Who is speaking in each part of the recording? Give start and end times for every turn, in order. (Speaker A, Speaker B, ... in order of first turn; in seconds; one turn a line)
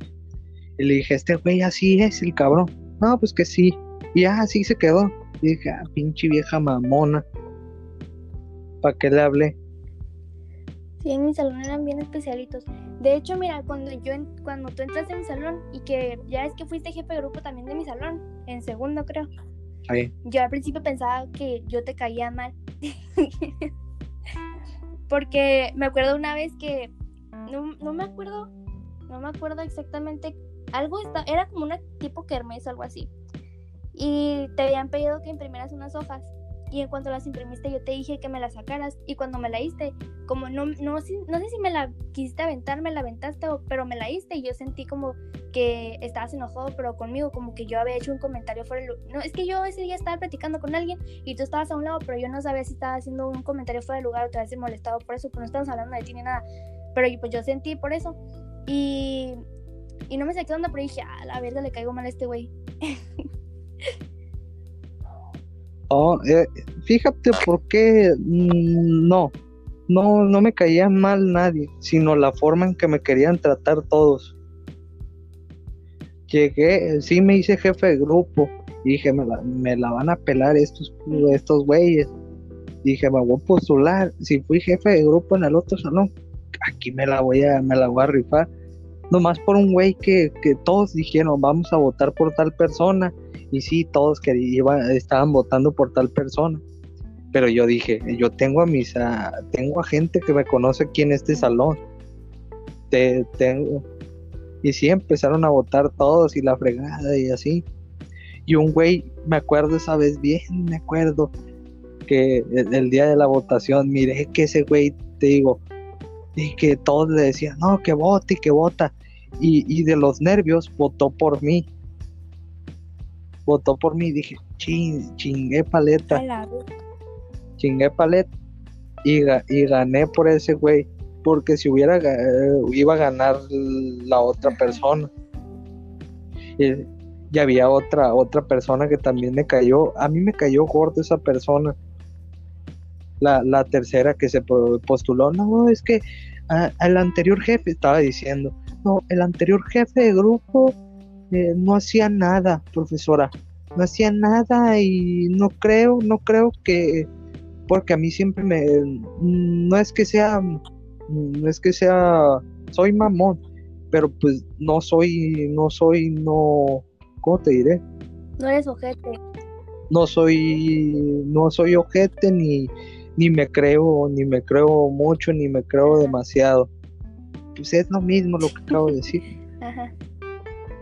Speaker A: 0.8-7.2
Speaker A: 8.8-9.6
Speaker B: 11.0-19.3
Speaker B: 20.3-23.7
Speaker B: 25.1-26.9
Speaker B: 27.5-28.5
Speaker B: 29.1-33.1
Speaker B: 34.0-56.4
Speaker B: 57.0-59.4
Speaker B: 60.1-63.0
Speaker A: 65.9-69.3
Speaker A: 69.9-74.3
Speaker A: 76.3-82.1
Speaker B: 81.1-81.4
Speaker A: 82.8-88.5
Speaker A: 89.1-96.6
Speaker A: 97.3-101.8
Speaker A: 102.9-103.8
Speaker A: 104.6-107.7
Speaker A: 108.5-111.3
Speaker A: 112.1-115.6
Speaker A: 116.4-121.7
Speaker A: 123.5-126.2
Speaker B: 126.1-126.6
Speaker A: 127.6-128.3
Speaker A: 129.1-135.1
Speaker B: 134.4-134.8
Speaker A: 136.6-141.7
Speaker A: 143.2-150.8
Speaker A: 151.3-157.1
Speaker A: 157.7-163.4
Speaker A: 163.9-167.8
Speaker B: 168.4-169.2
Speaker A: 169.9-176.7
Speaker B: 175.8-176.2
Speaker A: 177.6-179.2
Speaker B: 178.7-178.9
Speaker B: 179.6-179.9